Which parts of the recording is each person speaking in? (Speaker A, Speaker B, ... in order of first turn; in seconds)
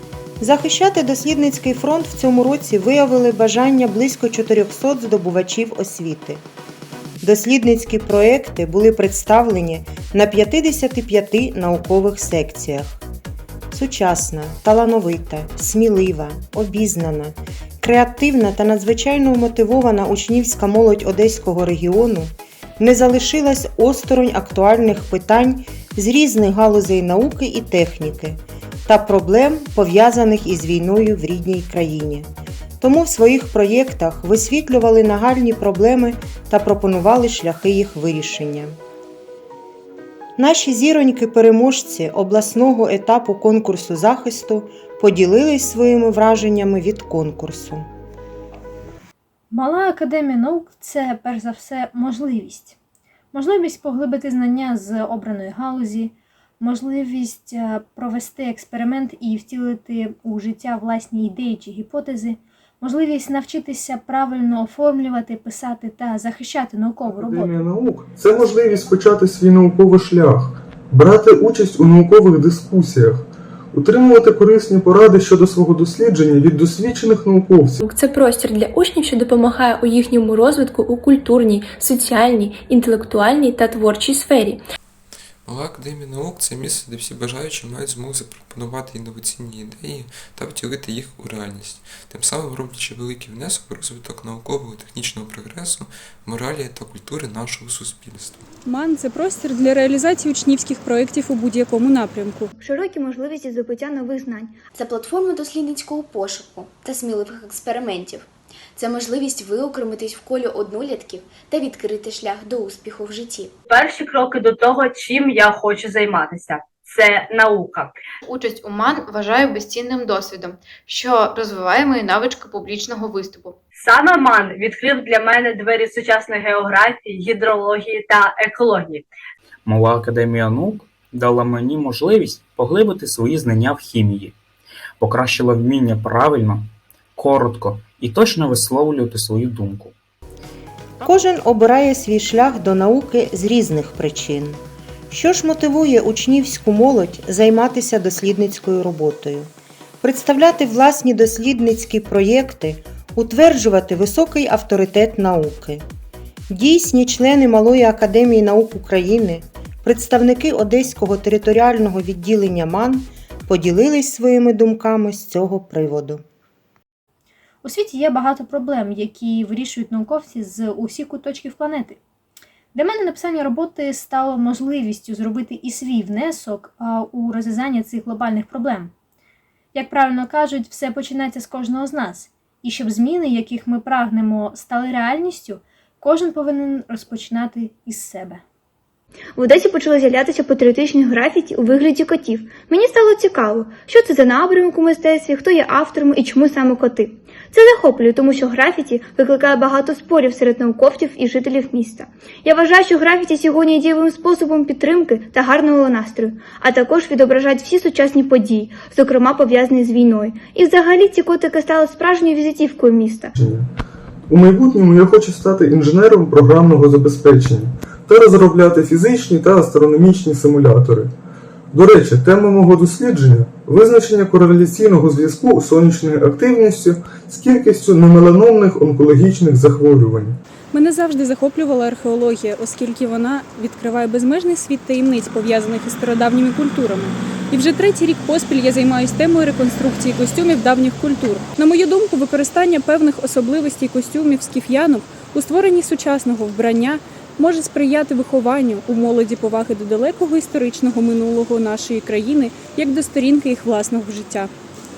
Speaker A: 0.4-6.5, 7.2-13.0, 13.7-38.8, 40.4-47.9, 141.0-155.8, 156.5-166.2
Speaker B: 49.5-52.8, 53.3-67.5, 167.6-172.0, 172.7-178.9, 179.7-188.4
Speaker C: 67.1-77.8, 213.4-213.7, 214.3-221.1, 221.7-230.4
Speaker D: 77.8-84.6
Speaker E: 85.5-98.4
Speaker F: 98.7-102.5, 230.7-254.5
Speaker G: 102.6-104.6, 189.3-213.3
Speaker H: 104.7-113.5
Speaker I: 113.7-117.9, 123.8-129.1
Speaker J: 118.2-123.6
Speaker K: 129.7-134.3, 135.0-139.9